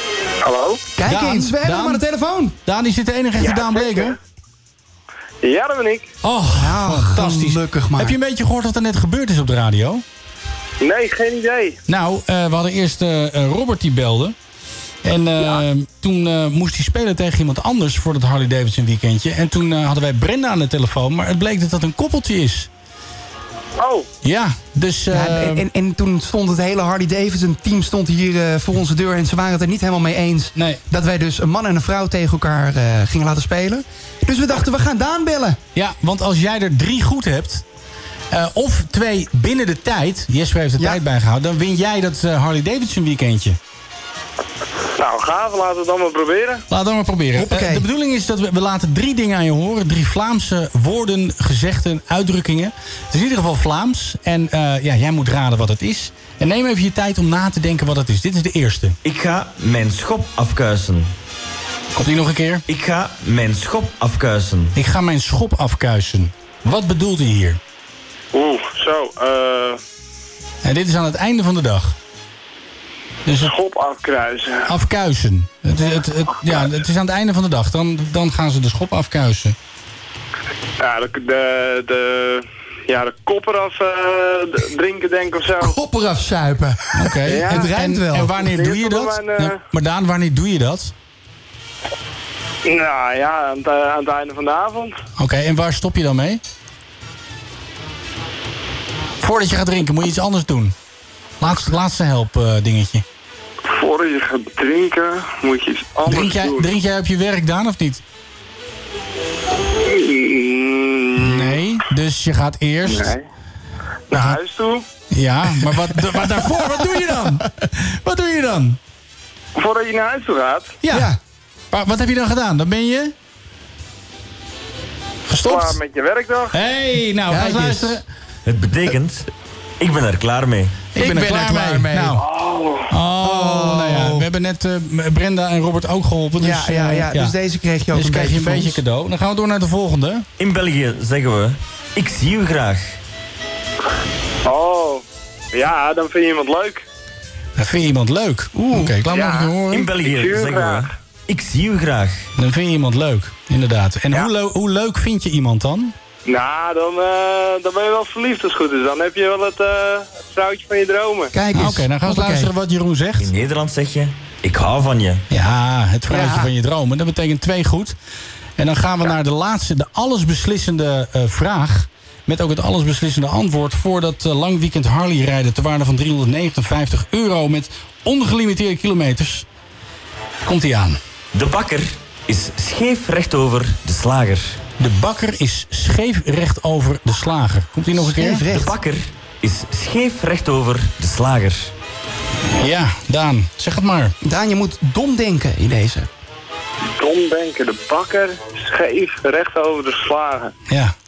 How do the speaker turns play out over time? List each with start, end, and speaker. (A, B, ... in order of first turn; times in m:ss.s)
0:00.4-0:00.8 A
0:00.9-0:02.6 B
0:01.1-0:02.0 C
0:02.6-0:04.2 C
0:03.4-0:04.2 A
0:05.4-0:06.1 A
0:06.2-0:10.0 C
0:06.5-0:08.2 B
0:10.8-0:11.8 A
0:11.9-0:14.4 C
0:15.0-0:22.7 C
0:15.4-0:15.6 A
0:23.8-0:24.1 A
0:24.2-0:25.6 C
0:25.1-0:35.6 B
0:30.6-0:30.8 C
0:35.8-0:37.6 C
0:38.3-0:43.6 C
0:45.0-0:46.6 A
0:46.7-0:59.0 C
0:47.4-0:47.9 B
0:59.0-1:01.1 D
1:02.0-1:02.6 C
1:02.7-1:04.8 D
1:04.8-1:07.6 C
1:08.3-1:09.8 A
1:10.6-1:12.0 C
1:13.3-1:13.5 C
1:13.4-1:14.7 A
1:14.7-1:19.6 C
1:20.8-1:25.8 A
1:25.6-1:28.5 B
1:26.9-1:30.9 C
1:27.3-1:27.7 A
1:28.4-1:29.6 A
1:32.6-1:35.0 A
1:35.2-1:36.4 C
1:39.2-1:40.8 C
1:41.4-1:43.0 C
1:43.7-1:46.7 A
1:46.1-1:48.0 C
1:49.8-1:51.6 A
1:51.2-1:53.1 C
1:52.9-1:53.2 A
1:54.1-1:54.8 A
1:54.1-1:54.4 C
1:55.1-1:58.8 C
1:55.6-1:56.2 B
1:59.6-2:00.8 A
2:00.8-2:01.1 C
2:00.9-2:01.2 B
2:01.7-2:03.1 C
2:05.3-2:05.8 C
2:05.4-2:06.6 A
2:06.5-2:08.0 C
2:07.3-2:08.0 B
2:08.5-2:09.3 D
2:09.8-2:10.8 D
2:10.9-2:12.3 C
2:11.0-2:12.2 B
2:12.2-2:12.8 A
2:12.9-2:17.4 C
2:13.2-2:14.3 B
2:16.4-2:18.8 B
2:17.9-2:20.3 C
2:20.4-2:23.0 D
2:24.5-2:26.8 A
2:27.6-2:29.9 C
2:28.6-2:29.0 B
2:29.0-2:30.9 A
2:29.7-2:32.3 D
2:32.4-2:36.0 C
2:36.3-2:41.3 A
2:41.3-2:42.5 B
2:41.5-2:43.3 C
2:43.2-2:45.2 D
2:45.3-2:48.0 C
2:46.1-2:46.5 B
2:48.6-2:59.5 C
3:00.4-3:01.0 C
3:01.3-3:04.6 D
3:04.8-3:08.5 C
3:08.0-3:08.8 B
3:08.5-3:11.7 D
3:12.6-3:14.2 C
3:14.2-3:16.1 B
3:17.0-3:20.5 A
3:20.7-3:20.9 C